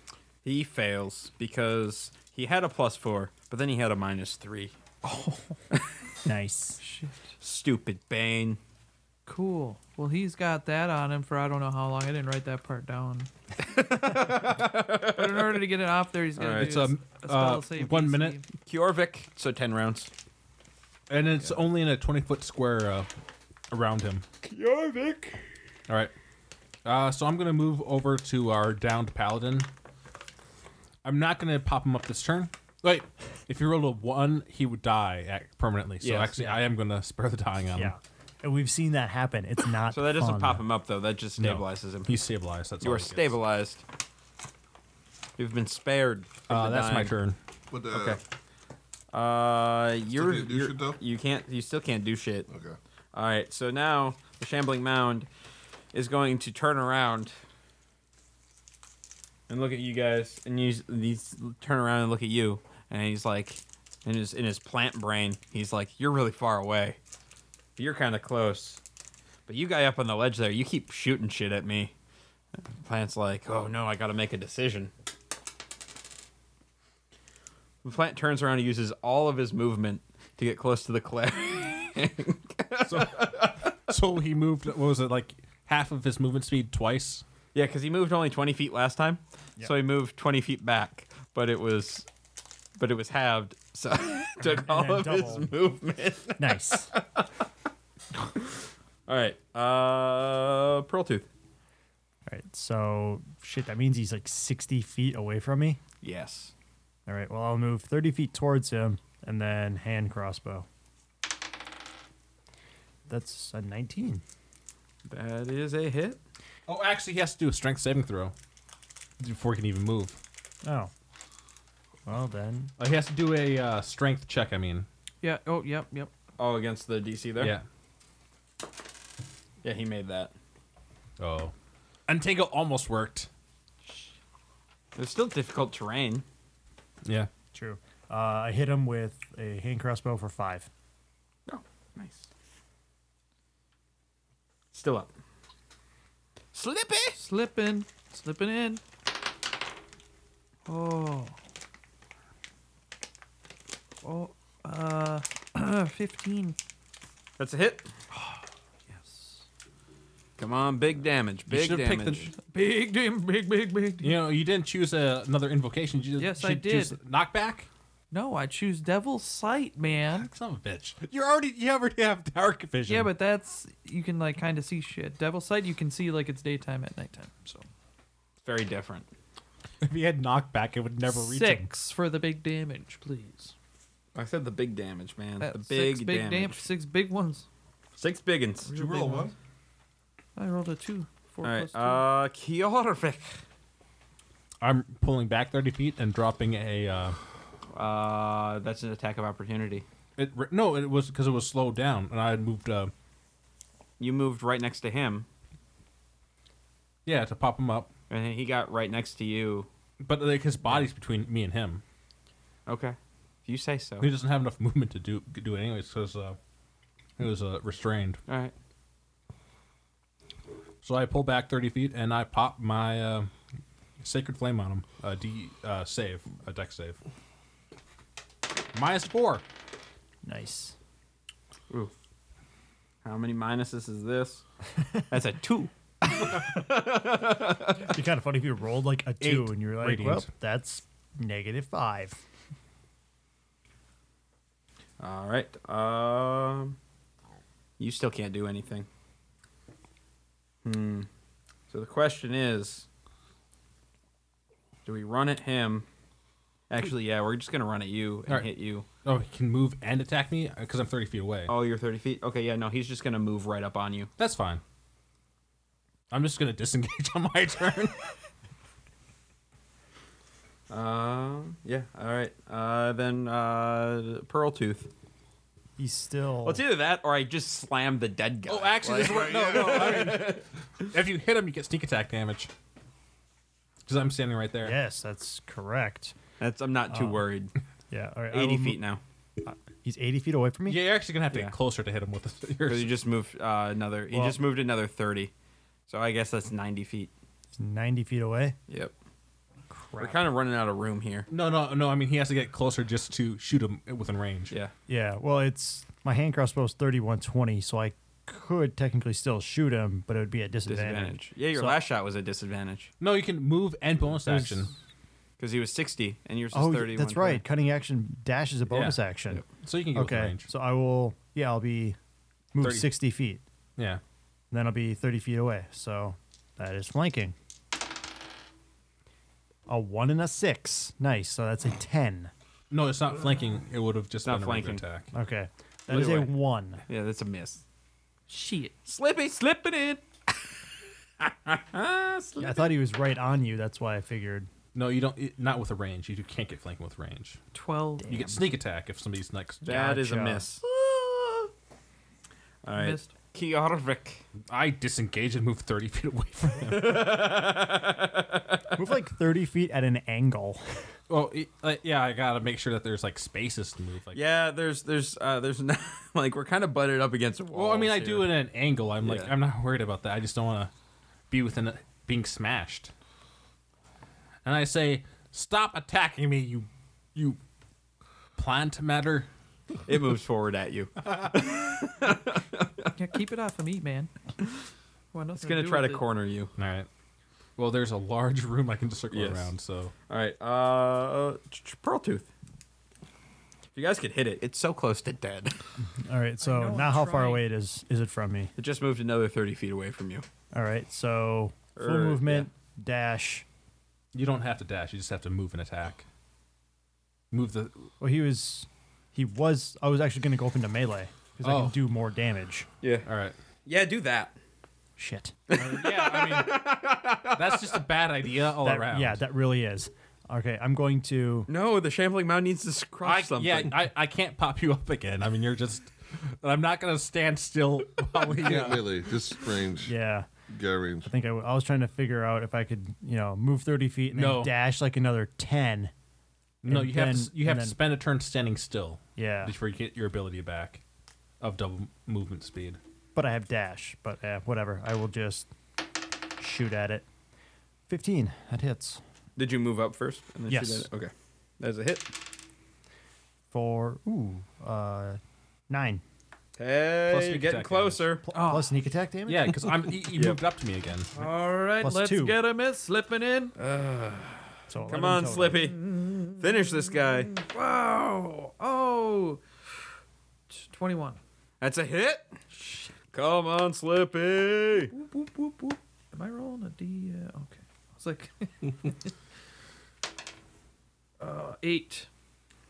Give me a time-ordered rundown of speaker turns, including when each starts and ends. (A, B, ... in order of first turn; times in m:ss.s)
0:00.4-0:04.8 A
0:06.2-0:06.8 B
0:06.8-0:07.3 C
0:07.4-0:08.6 A
0:09.2-0:13.3 C
0:13.6-0:15.6 A
0:14.3-0:18.4 C
0:16.4-0:16.8 A
0:16.5-0:18.4 D
0:18.6-0:20.1 A
0:21.1-0:23.1 D
0:23.7-0:24.2 D
0:24.4-0:25.4 A
0:25.9-0:26.1 D
0:26.8-0:29.7 D
0:31.0-0:37.9 D
0:36.0-0:36.5 A
0:37.8-0:40.6 B
0:39.9-0:42.1 A
0:41.4-0:43.4 D
0:42.8-0:43.8 A
0:45.4-0:47.1 A
0:46.5-0:47.4 D
0:47.7-0:48.2 E
0:47.9-0:48.2 A
0:49.1-0:52.5 A
0:50.1-0:51.0 E
0:52.5-0:52.8 E
0:53.1-0:55.3 A
0:55.9-0:57.3 A
0:59.5-1:07.0 A
1:07.8-1:08.8 A
1:09.5-1:11.9 A
1:12.8-1:14.9 A
1:17.8-1:23.7 A
1:22.8-1:27.2 D
1:27.5-1:32.1 A
1:32.8-1:37.2 A
1:34.5-1:35.5 B
1:36.4-1:36.9 B
1:39.1-1:41.3 A
1:42.3-1:45.8 B
1:46.0-1:46.5 A
1:47.1-1:50.7 B
1:53.1-1:54.2 B
1:55.0-1:56.2 A
1:56.7-1:58.3 D
1:59.2-2:00.2 D
2:00.6-2:00.9 B
2:02.0-2:02.7 B
2:02.8-2:04.9 D
2:05.2-2:06.1 C
2:06.4-2:07.5 A
2:07.4-2:07.6 D
2:09.6-2:10.3 A
2:11.2-2:11.5 D
2:12.1-2:13.3 D
2:15.0-2:16.2 A
2:17.0-2:17.3 D
2:17.5-2:20.7 B
2:21.5-2:22.3 A
2:24.7-2:25.1 A
2:26.5-2:27.2 A
2:27.1-2:28.8 C
2:30.7-2:31.4 C
2:34.0-2:36.6 C
2:37.4-2:37.9 A
2:38.1-2:39.4 C
2:40.4-2:42.3 A
2:41.5-2:42.3 D
2:42.4-2:44.2 C
2:44.0-2:47.7 D
2:46.2-2:47.0 C
2:48.1-2:50.3 C
2:50.2-2:53.1 D
2:52.9-2:57.7 C
2:58.4-2:59.1 A
2:59.8-3:01.7 D
3:01.1-3:03.5 C
3:04.1-3:06.7 A
3:05.4-3:07.4 C
3:08.0-3:08.7 A
3:08.6-3:09.3 C
3:08.7-3:09.3 E
3:10.4-3:12.1 C
3:11.4-3:13.4 A
3:14.6-3:17.2 D
3:17.7-3:19.8 A
3:20.2-3:22.9 D
3:24.0-3:25.3 A
3:27.0-3:27.9 D
3:28.1-3:29.7 A
3:30.0-3:31.8 D
3:32.7-3:34.1 A
3:34.0-3:36.4 D
3:37.2-3:38.2 D
3:38.3-3:38.5 A
3:40.8-3:43.3 D
3:44.0-3:47.0 D
3:48.7-3:49.4 D
3:50.2-3:50.7 B
3:53.0-3:54.4 A
3:55.1-3:57.9 A
3:57.8-4:02.2 B
3:59.2-4:00.3 D
4:05.0-4:06.8 A
4:07.8-4:08.9 A
4:10.6-4:11.1 A
4:11.7-4:12.8 A
4:14.8-4:15.8 A
4:16.7-4:18.8 A
4:19.0-4:21.5 D
4:21.5-4:24.1 A
4:24.2-4:24.6 D
4:26.1-4:28.1 D
4:30.7-4:34.9 A
4:35.8-4:36.6 B
4:36.4-4:40.9 A
4:38.5-4:42.5 D
4:39.0-4:40.2 E
4:43.8-4:44.8 D
4:44.6-4:46.2 B
4:46.4-4:47.5 A
4:46.9-4:47.2 B
4:47.9-4:48.8 B
4:48.3-4:49.0 A
4:49.4-4:50.8 B
4:50.6-4:53.0 D
4:52.6-4:55.3 A
4:54.1-4:54.4 B
4:55.9-4:57.1 A
4:57.5-4:58.6 B
4:58.7-4:58.9 A
4:59.7-5:00.3 B
5:00.0-5:01.3 A
5:01.3-5:04.6 D
5:04.9-5:11.8 B
5:10.7-5:12.9 A
5:13.0-5:14.7 D
5:14.1-5:14.6 B
5:15.4-5:17.4 A
5:16.5-5:22.0 B
5:18.7-5:20.5 D
5:22.5-5:23.4 B
5:22.6-5:22.9 D
5:24.5-5:27.4 B
5:29.7-5:32.3 B
5:32.7-5:35.1 D
5:34.2-5:34.8 A
5:35.1-5:36.8 B
5:35.9-5:37.6 A
5:38.3-5:38.7 C
5:38.8-5:40.0 A
5:41.2-5:42.7 A
5:42.4-5:44.5 B
5:44.7-5:47.4 D
5:47.5-5:48.1 C
5:48.1-5:49.7 D
5:48.1-5:48.4 B
5:49.6-5:50.4 B
5:49.6-5:50.6 A
5:50.8-5:51.3 C
5:52.6-5:54.2 A
5:52.7-5:53.1 C
5:54.4-5:57.2 D
5:56.6-5:58.8 A
5:58.8-6:00.8 B
6:01.1-6:04.2 D
6:04.1-6:08.3 A
6:07.5-6:10.7 D
6:09.0-6:09.3 A
6:11.3-6:12.9 D
6:14.4-6:17.4 D
6:18.4-6:19.3 D
6:19.9-6:22.9 A
6:22.9-6:24.1 C
6:25.1-6:26.0 C
6:25.4-6:26.5 A
6:26.6-6:26.9 D
6:27.6-6:29.9 D
6:29.1-6:29.5 A
6:30.1-6:32.3 A
6:33.7-6:35.5 A
6:35.8-6:38.5 B
6:36.4-6:37.4 C
6:38.6-6:40.2 A
6:40.5-6:43.4 B
6:41.8-6:42.5 A
6:44.1-6:46.0 D
6:47.3-6:47.9 D
6:48.0-6:52.7 B
6:51.4-6:51.8 D
6:53.0-6:53.4 D
6:53.6-6:54.4 A
6:55.0-6:55.4 B
6:55.5-6:57.8 A
6:55.6-6:56.7 D
6:57.3-6:59.2 D
6:58.6-7:01.5 B
7:01.5-7:03.7 A
7:03.0-7:08.9 D
7:08.3-7:09.9 E
7:09.8-7:10.3 B
7:10.5-7:11.1 E
7:11.0-7:15.9 B
7:14.1-7:14.5 D
7:16.6-7:20.8 D
7:16.7-7:17.8 B
7:19.2-7:19.5 B
7:21.4-7:22.8 D
7:23.1-7:25.5 B
7:26.4-7:27.0 B
7:27.9-7:29.0 B
7:29.4-7:32.1 A
7:30.5-7:30.9 B
7:33.5-7:36.0 B
7:36.6-7:38.2 A
7:37.1-7:38.1 D
7:38.3-7:39.6 B
7:38.3-7:38.7 C
7:39.3-7:41.1 D
7:40.1-7:40.4 A
7:41.1-7:43.5 C
7:41.8-7:42.4 B
7:43.6-7:45.8 A
7:44.7-7:45.6 B
7:45.7-7:46.4 C
7:46.4-7:47.3 A
7:47.2-7:49.4 C
7:50.5-7:51.2 C
7:51.6-7:52.4 A
7:52.5-7:52.9 C
7:53.1-7:54.9 A
7:54.9-7:59.1 C
8:01.2-8:02.1 C